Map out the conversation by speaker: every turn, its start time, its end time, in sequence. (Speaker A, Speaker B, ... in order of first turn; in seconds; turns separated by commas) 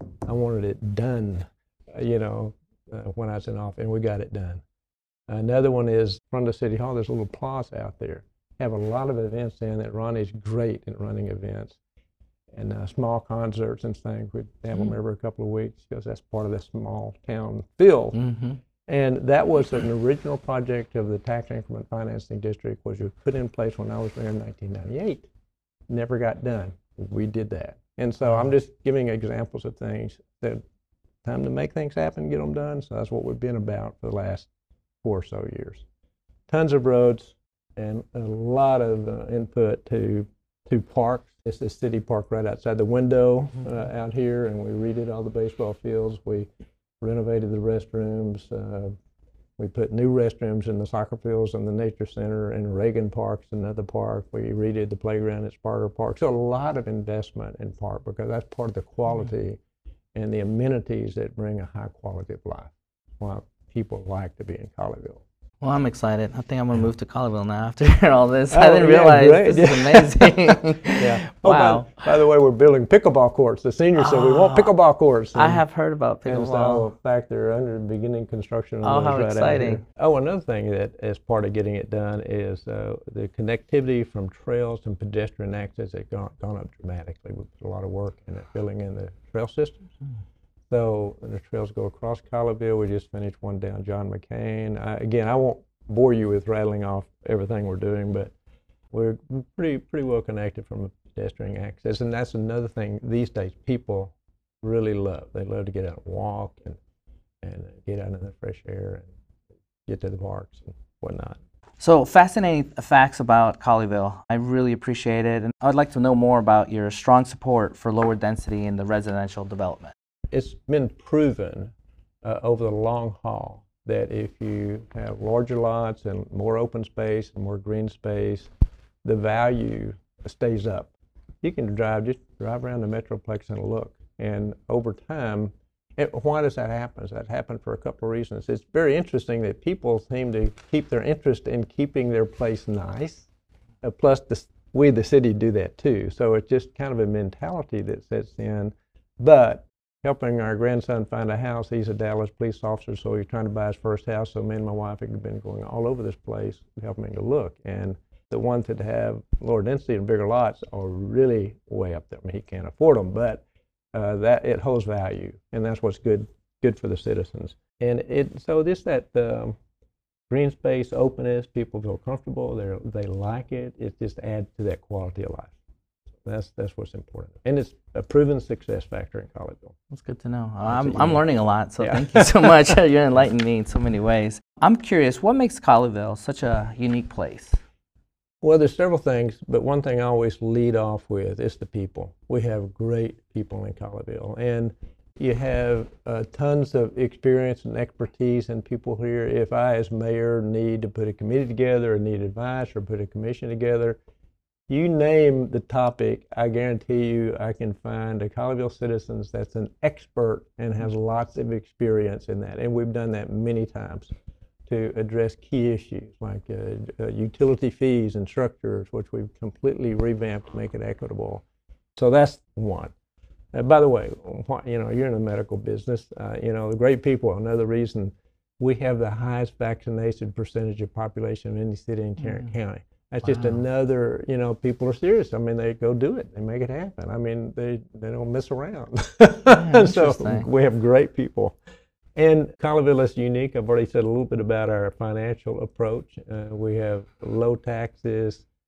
Speaker A: 0.3-4.6, Speaker A: 5.3-11.8, Speaker A: 12.5-18.2, Speaker B: 18.1-18.6, Speaker A: 18.9-25.3, Speaker A: 25.9-30.6, Speaker A: 31.2-34.5, Speaker A: 35.0-35.9, Speaker A: 36.5-46.5, Speaker A: 47.0-49.0, Speaker A: 49.6-59.6, Speaker A: 60.1-65.2, Speaker B: 65.6-71.9, Speaker A: 68.5-75.6, Speaker B: 74.0-74.7, Speaker B: 75.3-76.8, Speaker A: 76.3-89.9, Speaker B: 78.8-79.8, Speaker A: 90.7-98.3, Speaker A: 98.9-106.8, Speaker A: 107.4-109.1, Speaker A: 109.9-111.4, Speaker B: 111.8-119.9, Speaker A: 120.3-128.5, Speaker A: 129.0-130.9, Speaker A: 131.4-143.3, Speaker A: 143.8-163.4, Speaker A: 163.9-169.6, Speaker A: 170.3-175.5, Speaker A: 176.2-179.8, Speaker B: 179.9-187.6, Speaker A: 180.7-181.2, Speaker A: 181.8-182.5, Speaker A: 188.4-204.0, Speaker A: 204.7-214.1, Speaker A: 214.7-221.4, Speaker A: 222.0-222.9, Speaker A: 223.5-241.6, Speaker B: 233.3-233.6, Speaker B: 239.5-240.5, Speaker A: 242.2-248.5